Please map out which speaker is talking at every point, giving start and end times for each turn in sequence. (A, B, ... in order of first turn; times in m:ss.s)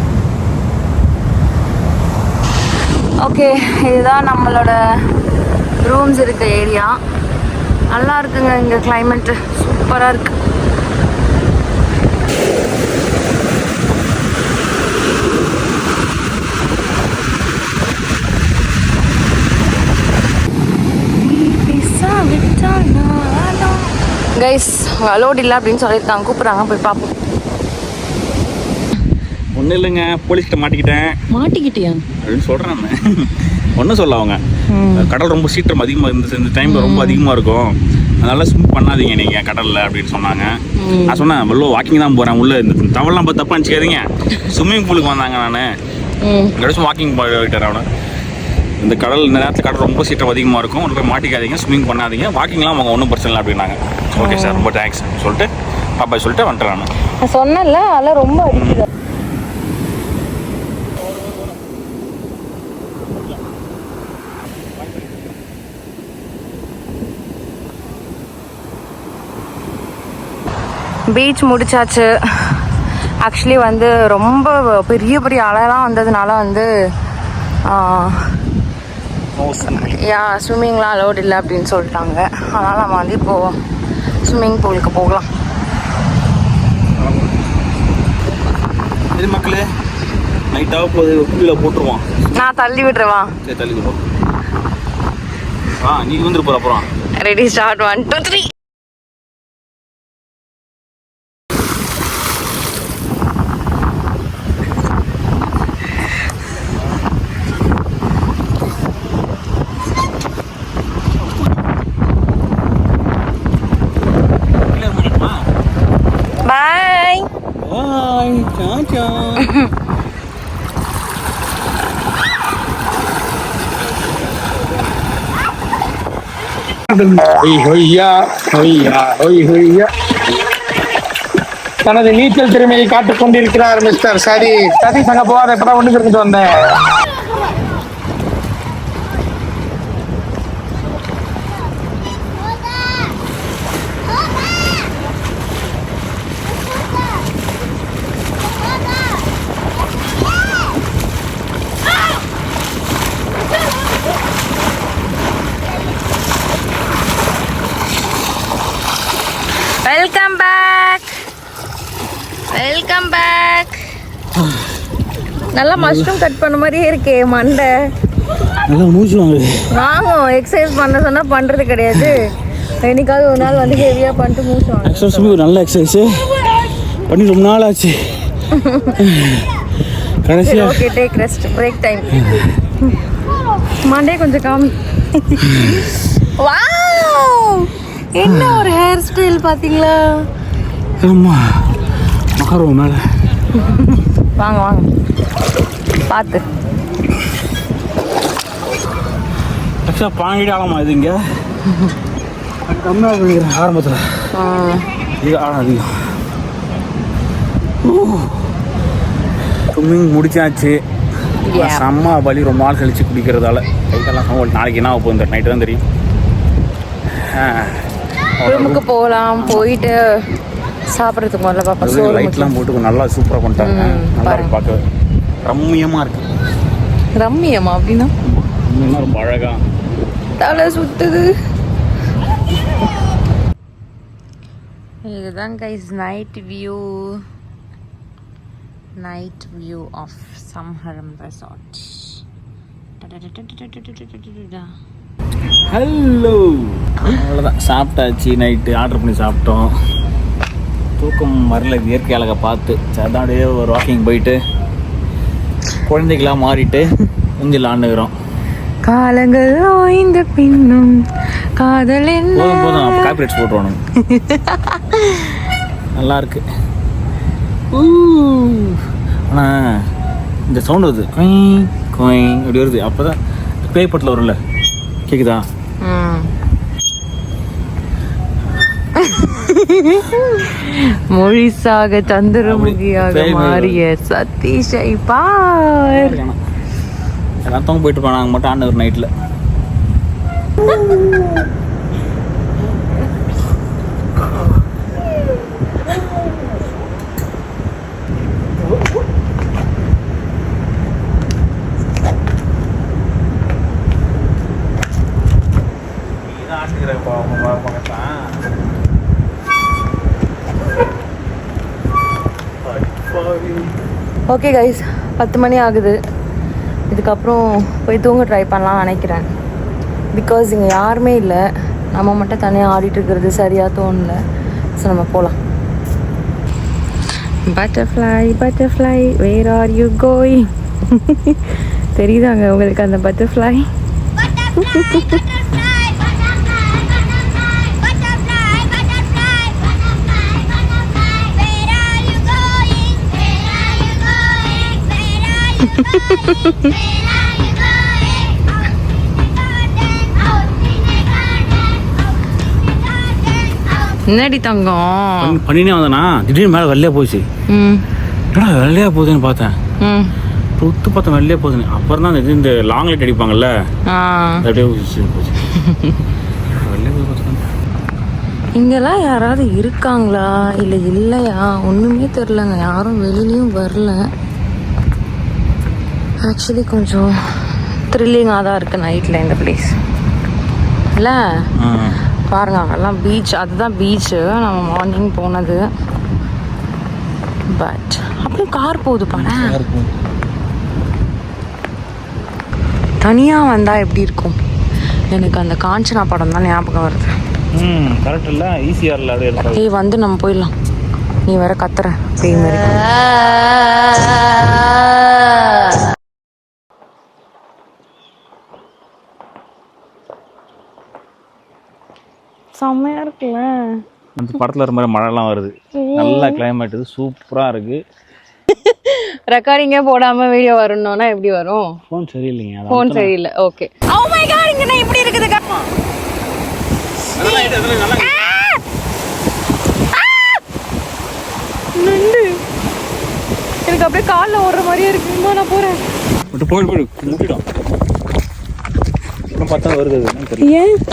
0:03.2-0:04.8 A
0:05.8-0:06.9 A
0:07.9-0:10.4 A
0:21.2-0:27.2 A
0:29.6-0:31.1 B
0:31.4-0:32.0 A
0:32.2-0:34.4 B
0:34.7-0:35.1 A
0:34.9-0:37.7 B
0:36.6-0:37.3 A
0:38.2-0:40.5 B
0:40.8-0:41.3 A
0:41.1-0:45.7 B
0:46.2-0:46.5 A
0:46.6-0:47.8 B
0:48.8-0:56.9 B
0:54.2-0:54.7 A
0:57.2-0:58.9 A
0:58.4-0:58.9 B
1:11.1-1:12.7 A
1:13.2-1:16.7 A
1:17.7-1:18.4 A
1:19.4-1:20.0 B
1:19.7-1:23.6 A
1:24.3-1:25.3 A
1:27.0-1:27.3 B
1:29.2-1:29.6 B
1:30.5-1:32.2 B
1:32.3-1:33.4 A
1:33.4-1:34.0 B
1:35.7-1:36.9 B
1:37.2-1:38.5 A
1:54.7-1:55.5 B
1:56.5-1:57.2 A
1:57.6-1:59.6 B
2:06.9-2:09.9 C
2:11.8-2:16.7 C
2:39.8-2:41.1 A
2:42.5-2:43.8 A
2:44.4-2:44.7 B
2:45.6-2:47.9 A
2:45.7-2:46.2 B
2:48.6-2:49.7 B
2:49.7-2:52.3 A
2:51.9-2:52.2 B
2:52.8-2:55.3 A
2:53.4-2:53.9 B
2:54.8-2:56.3 B
2:57.1-2:58.2 B
2:58.5-2:58.9 A
2:58.9-2:59.5 B
3:00.2-3:00.8 B
3:00.4-3:02.1 A
3:02.1-3:02.5 B
3:03.8-3:05.3 A
3:05.4-3:05.9 B
3:06.4-3:10.3 A
3:08.3-3:08.7 B
3:11.0-3:11.7 B
3:12.4-3:13.0 B
3:14.4-3:14.9 A
3:16.1-3:16.5 A
3:19.8-3:21.2 B
3:22.7-3:24.3 B
3:24.4-3:24.9 A
3:25.2-3:25.9 B
3:27.8-3:28.5 B
3:29.7-3:30.8 B
3:31.5-3:31.9 A
3:31.5-3:35.8 B
3:37.2-3:37.9 B
3:38.4-3:38.8 B
3:38.4-3:40.1 A
3:39.4-3:39.7 B
3:40.9-3:42.5 A
3:41.8-3:44.8 B
3:43.6-3:44.5 A
3:45.4-3:46.3 B
3:47.2-3:48.1 A
3:48.3-3:49.6 B
3:50.4-3:51.3 A
3:55.1-3:57.2 A
3:59.0-4:02.2 A
4:03.0-4:04.6 A
4:05.7-4:09.7 B
4:11.0-4:14.4 B
4:15.8-4:18.1 B
4:18.9-4:21.0 A
4:21.6-4:23.1 A
4:22.3-4:23.8 B
4:26.0-4:26.4 B
4:27.7-4:29.8 B
4:30.5-4:34.4 B
4:35.1-4:35.4 B
4:35.8-4:36.3 A
4:39.0-4:46.1 A
4:42.2-4:43.8 B
4:45.8-4:46.4 B
4:47.4-4:49.1 B
5:06.2-5:08.2 B
5:12.6-5:13.7 B
5:14.3-5:16.0 A
5:16.9-5:19.3 A
5:20.1-5:21.4 A
5:21.9-5:24.2 A
5:24.8-5:25.4 A
5:27.5-5:33.7 A
5:34.6-5:35.2 A
5:45.8-5:46.4 A
5:54.1-5:55.4 A
5:55.2-5:57.3 B
5:57.5-5:57.8 A
5:58.3-5:59.6 B
5:59.8-6:00.1 A
6:00.6-6:03.5 B
6:03.9-6:04.4 A
6:04.4-6:05.5 B
6:06.6-6:07.4 B
6:08.6-6:14.0 A
6:16.2-6:19.7 A
6:21.6-6:22.0 B
6:22.3-6:25.6 A
6:27.6-6:29.6 A
6:29.1-6:29.9 B
6:33.0-6:34.4 A
6:35.1-6:37.1 A
6:37.6-6:39.7 B
6:39.5-6:40.5 A
6:41.3-6:42.7 A
6:52.6-6:53.8 A
6:54.2-6:57.8 B
6:55.8-6:56.4 A
6:58.5-7:01.8 A
7:01.9-7:03.1 B
7:02.7-7:05.4 A
7:05.4-7:05.7 B
7:07.1-7:08.3 B
7:11.8-7:12.4 A
7:13.7-7:15.8 A
7:16.3-7:17.4 B
7:19.3-7:20.5 B
7:20.4-7:20.7 A